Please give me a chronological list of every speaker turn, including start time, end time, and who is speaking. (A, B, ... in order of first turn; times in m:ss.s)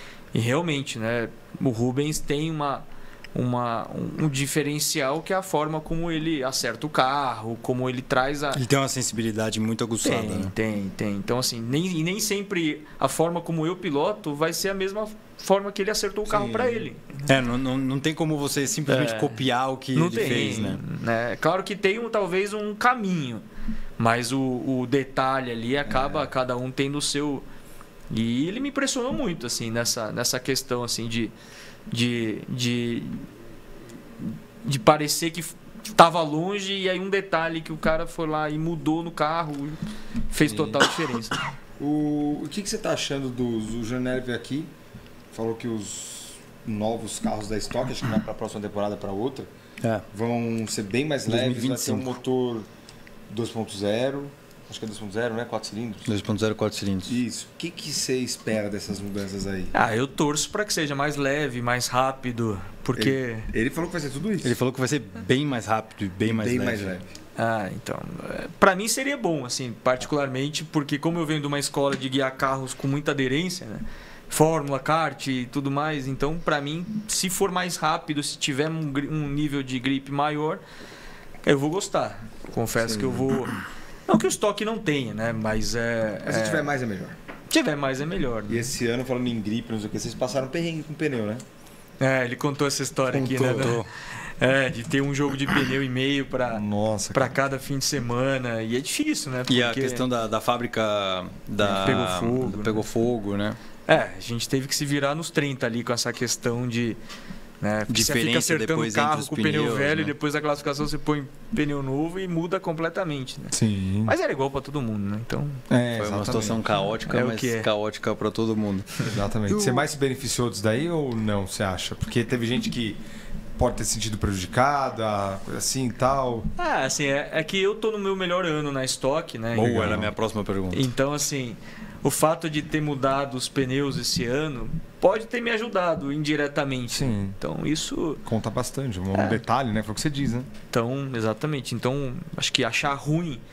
0:00.3-0:08.6 A
0:08.5-0:10.5 B
0:10.0-0:17.2 A
0:16.3-0:16.8 C
0:17.2-0:20.8 B
0:18.9-0:19.4 A
0:19.9-0:23.4 A
0:24.0-0:27.4 A
0:25.9-0:26.2 C
0:28.1-0:31.3 A
0:31.9-0:33.3 A
0:34.2-0:41.4 A
0:40.4-0:40.8 C
0:41.8-0:44.7 C
0:45.3-0:49.5 C
0:50.1-0:52.7 C
0:51.3-0:52.2 B
0:53.3-0:56.1 C
0:56.1-0:57.1 B
0:57.1-0:59.7 C
0:59.7-1:03.5 A
1:03.0-1:04.6 C
1:04.4-1:06.9 B
1:06.2-1:07.1 C
1:07.4-1:20.6 A
1:21.4-1:23.5 A
1:22.8-1:23.2 C
1:24.1-1:26.7 A
1:26.2-1:27.2 C
1:27.5-1:28.7 A
1:28.5-1:31.4 C
1:32.0-1:33.8 A
1:33.1-1:33.9 B
1:34.4-1:40.0 A
1:36.5-1:37.4 C
1:39.5-1:43.6 B
1:41.6-1:42.0 C
1:41.7-1:42.8 A
1:43.9-1:47.0 A
1:47.6-1:53.5 A
1:47.9-1:50.1 B
1:53.5-1:54.2 C
1:54.0-1:55.6 A
1:55.7-1:56.6 C
1:55.9-1:59.9 B
1:57.1-1:57.7 A
1:59.0-2:03.0 C
2:03.6-2:06.5 C
2:06.6-2:10.1 A
2:09.5-2:10.8 B
2:09.6-2:10.0 C
2:10.7-2:18.2 A
2:16.9-2:17.4 C
2:18.2-2:20.5 C
2:20.7-2:23.4 A